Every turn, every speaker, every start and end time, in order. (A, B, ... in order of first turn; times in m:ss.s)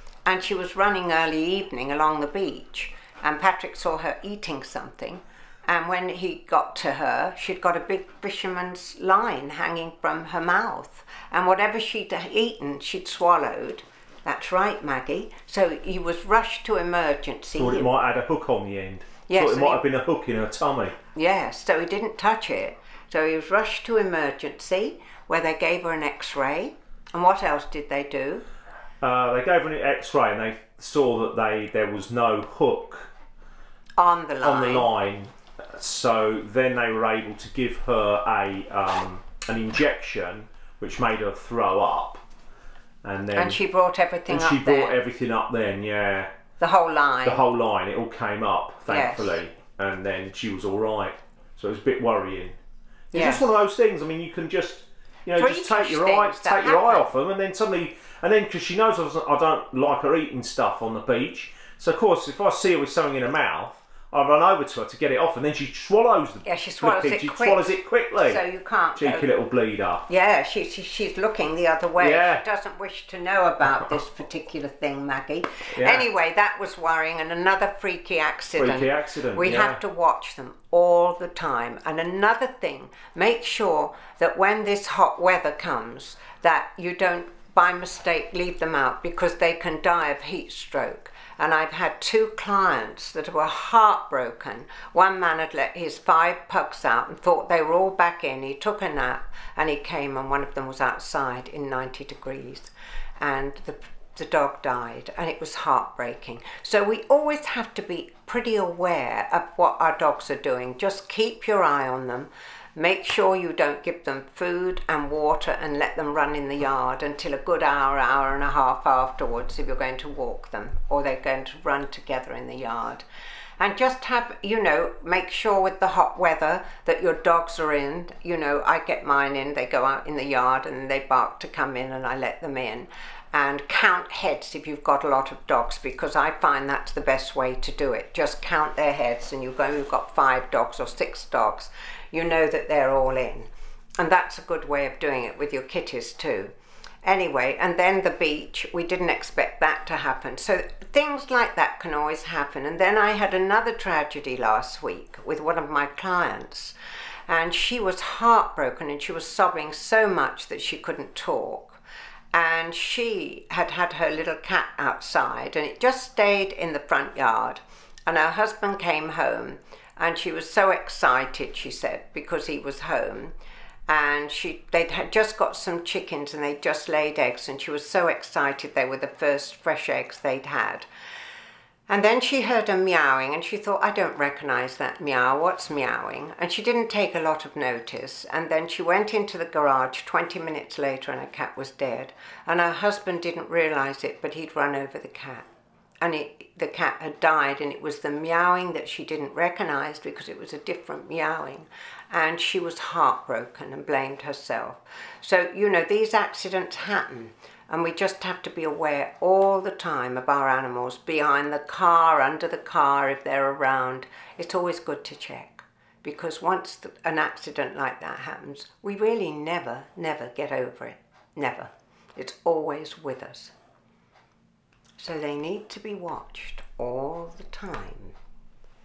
0:00.2-0:17.9 A
0:17.6-0:21.0 B
0:19.3-0:19.8 A
0:21.1-0:28.4 A
0:29.0-0:33.1 B
0:34.0-0:34.9 A
0:34.4-0:42.2 B
0:43.0-0:43.6 B
0:43.4-0:45.0 A
0:44.3-0:46.3 B
0:46.6-0:47.4 A
0:47.2-0:52.6 B
0:48.9-0:49.4 A
0:53.1-1:08.4 B
0:53.1-0:53.4 A
0:55.4-0:57.0 A
1:06.4-1:09.3 A
1:09.0-1:10.0 B
1:10.1-2:03.0 A
1:12.0-1:12.4 B
1:15.7-1:16.1 B
1:18.6-1:19.8 B
2:03.6-2:26.5 A
2:27.0-2:36.7 A
2:37.3-2:41.8 A
2:42.3-2:53.3 A
2:53.9-3:00.9 A
3:01.9-3:15.4 A
3:16.0-3:43.5 A
3:45.0-3:48.1 A